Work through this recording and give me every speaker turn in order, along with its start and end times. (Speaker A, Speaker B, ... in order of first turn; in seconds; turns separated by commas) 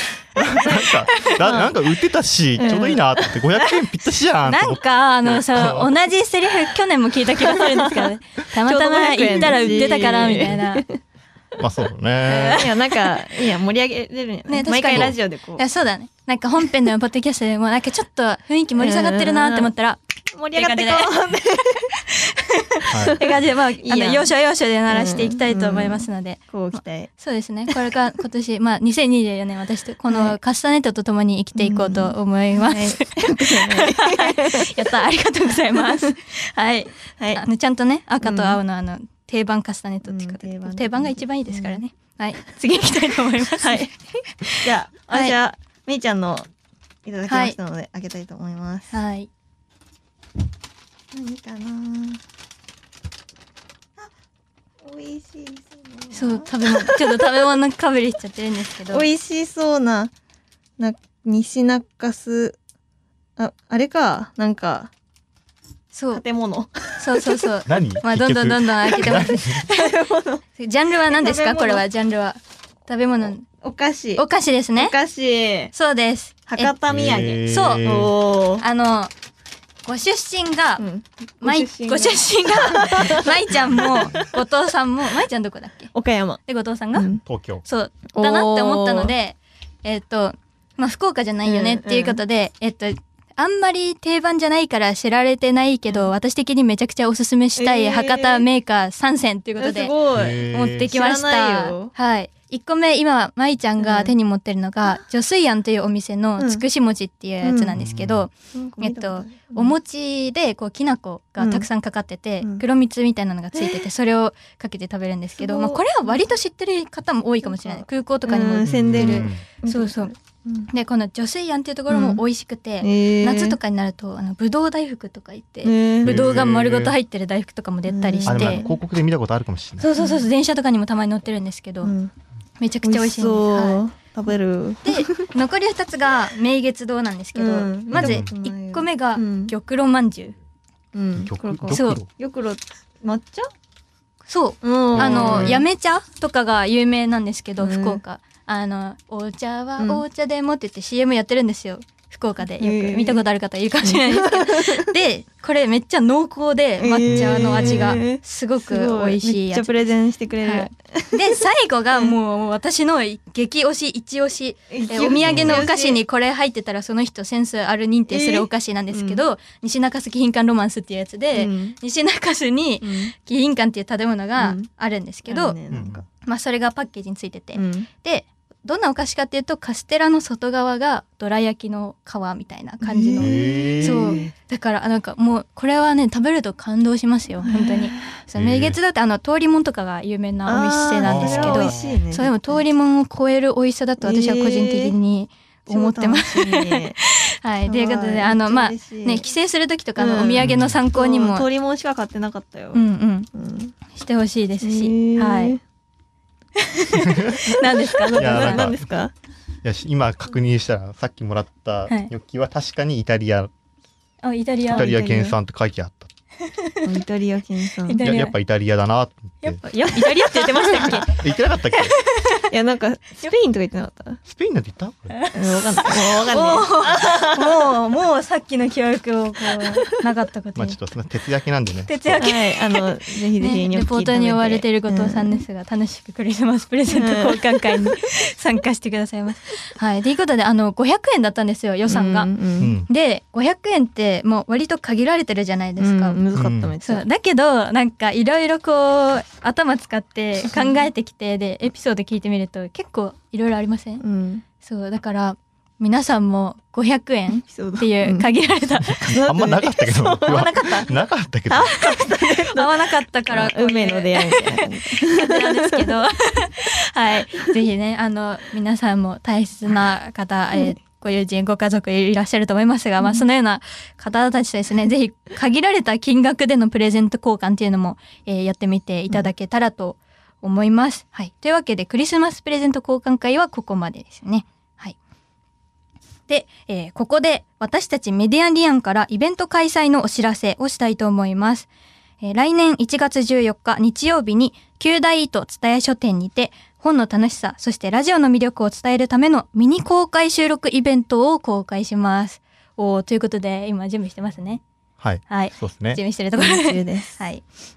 Speaker A: 0.3-5.9, Speaker B: 0.7-1.8, Speaker B: 2.6-3.7, Speaker C: 4.5-10.8, Speaker B: 7.5-10.9, Speaker A: 11.6-12.7, Speaker B: 12.2-15.6, Speaker C: 14.5-20.0, Speaker A: 14.8-15.2, Speaker B: 18.8-19.7, Speaker B: 20.3-21.8, Speaker C: 20.5-21.1, Speaker C: 22.1-45.4, Speaker A: 22.9-23.2, Speaker B: 23.0-24.3, Speaker B: 24.9-27.1, Speaker B: 30.1-30.4, Speaker B: 31.6-34.8, Speaker B: 35.8-36.1, Speaker B: 38.2-38.6, Speaker B: 40.0-41.8, Speaker B: 43.6-43.9, Speaker B: 44.6-46.5, Speaker B: 47.0-49.0, Speaker C: 47.3-47.6, Speaker C: 48.9-49.3, Speaker B: 51.1-52.2, Speaker B: 54.8-57.1, Speaker C: 56.1-59.1, Speaker B: 58.9-60.1, Speaker B: 60.8-62.6, Speaker B: 63.4-64.9, Speaker C: 65.9-66.2, Speaker B: 66.1-67.5, Speaker C: 67.0-69.8, Speaker A: 67.7-69.6, Speaker B: 69.0-70.5, Speaker C: 70.6-73.5, Speaker B: 71.1-71.8, Speaker B: 73.5-75.7, Speaker C: 74.2-75.0, Speaker C: 75.7-76.7, Speaker B: 76.5-78.6, Speaker A: 76.9-78.1, Speaker C: 77.4-77.9, Speaker C: 78.6-79.1, Speaker C: 79.8-80.8, Speaker B: 80.8-84.2, Speaker C: 81.4-85.9, Speaker B: 85.9-86.4, Speaker C: 86.5-87.1, Speaker B: 86.9-87.2, Speaker A: 87.3-87.6, Speaker C: 87.6-99.9, Speaker B: 88.1-89.1, Speaker B: 91.5-92.2, Speaker B: 97.6-98.5, Speaker B: 99.6-101.9, Speaker A: 100.1-100.9, Speaker C: 100.5-120.1, Speaker B: 103.8-104.1, Speaker B: 106.4-106.6, Speaker B: 107.4-107.8, Speaker A: 107.8-108.2, Speaker B: 108.5-109.7, Speaker B: 111.4-111.7, Speaker B: 115.4-116.2, Speaker B: 117.4-120.7, Speaker A: 118.7-119.5, Speaker C: 120.7-128.7, Speaker B: 121.9-122.2, Speaker B: 122.8-123.6, Speaker B: 125.6-126.2, Speaker A: 126.0-127.0, Speaker B: 127.9-128.8, Speaker A: 128.3-129.9, Speaker C: 129.8-131.9, Speaker B: 130.0-130.3, Speaker B: 131.8-132.1, Speaker C: 132.6-133.8, Speaker B: 132.8-135.2, Speaker C: 134.8-140.4, Speaker B: 137.3-139.5, Speaker A: 137.9-138.3, Speaker B: 140.9-143.5, Speaker A: 141.1-142.1, Speaker C: 141.7-142.0, Speaker C: 144.3-159.8, Speaker B: 144.6-145.7, Speaker A: 144.9-145.6, Speaker B: 147.6-148.0, Speaker B: 149.8-150.0, Speaker B: 152.6-153.2, Speaker B: 153.8-154.8, Speaker B: 156.8-161.4, Speaker A: 157.1-158.0, Speaker C: 160.4-175.6, Speaker B: 164.7-166.0, Speaker A: 165.2-165.7, Speaker B: 168.1-169.2, Speaker B: 171.3-171.8, Speaker B: 172.8-173.1, Speaker B: 174.4-174.7, Speaker B: 175.3-176.1, Speaker A: 175.7-176.0, Speaker C: 176.2-201.5, Speaker B: 177.6-177.9, Speaker B: 182.8-184.3, Speaker A: 183.2-184.3, Speaker B: 187.4-188.1, Speaker A: 188.3-188.8, Speaker B: 190.4-192.6, Speaker A: 191.0-192.0, Speaker B: 194.0-194.9, Speaker B: 195.7-197.0, Speaker B: 197.7-199.3, Speaker B: 200.0-203.8, Speaker A: 200.4-200.8, Speaker C: 202.7-203.3, Speaker C: 203.9-205.6, Speaker B: 204.6-205.6, Speaker C: 206.8-208.7, Speaker A: 207.0-207.5, Speaker B: 207.6-209.1, Speaker A: 208.1-208.8, Speaker A: 209.6-213.5, Speaker C: 214.2-214.9, Speaker B: 214.7-215.4, Speaker A: 214.8-216.1, Speaker C: 216.5-216.8, Speaker B: 216.8-218.1, Speaker C: 217.9-218.4, Speaker A: 218.0-219.6, Speaker C: 219.4-222.5, Speaker B: 219.7-221.1, Speaker A: 221.1-221.9, Speaker B: 222.5-224.2, Speaker A: 224.3-225.2, Speaker C: 225.1-230.8, Speaker B: 225.3-227.6, Speaker A: 230.6-232.3, Speaker C: 231.9-232.8, Speaker B: 232.2-235.4, Speaker C: 233.4-242.3, Speaker B: 236.9-237.5, Speaker B: 241.9-242.8, Speaker A: 242.6-242.9, Speaker C: 242.9-246.2, Speaker B: 245.8-247.1, Speaker A: 246.3-246.7, Speaker C: 246.8-254.0, Speaker B: 250.5-250.8, Speaker B: 254.0-254.4, Speaker C: 254.6-259.0, Speaker B: 257.4-258.3, Speaker B: 259.0-265.6, Speaker A: 259.1-261.8, Speaker C: 262.3-284.9, Speaker C: 286.3-291.7, Speaker C: 292.2-304.6, Speaker A: 305.0-306.0, Speaker C: 305.3-307.4, Speaker B: 306.4-307.2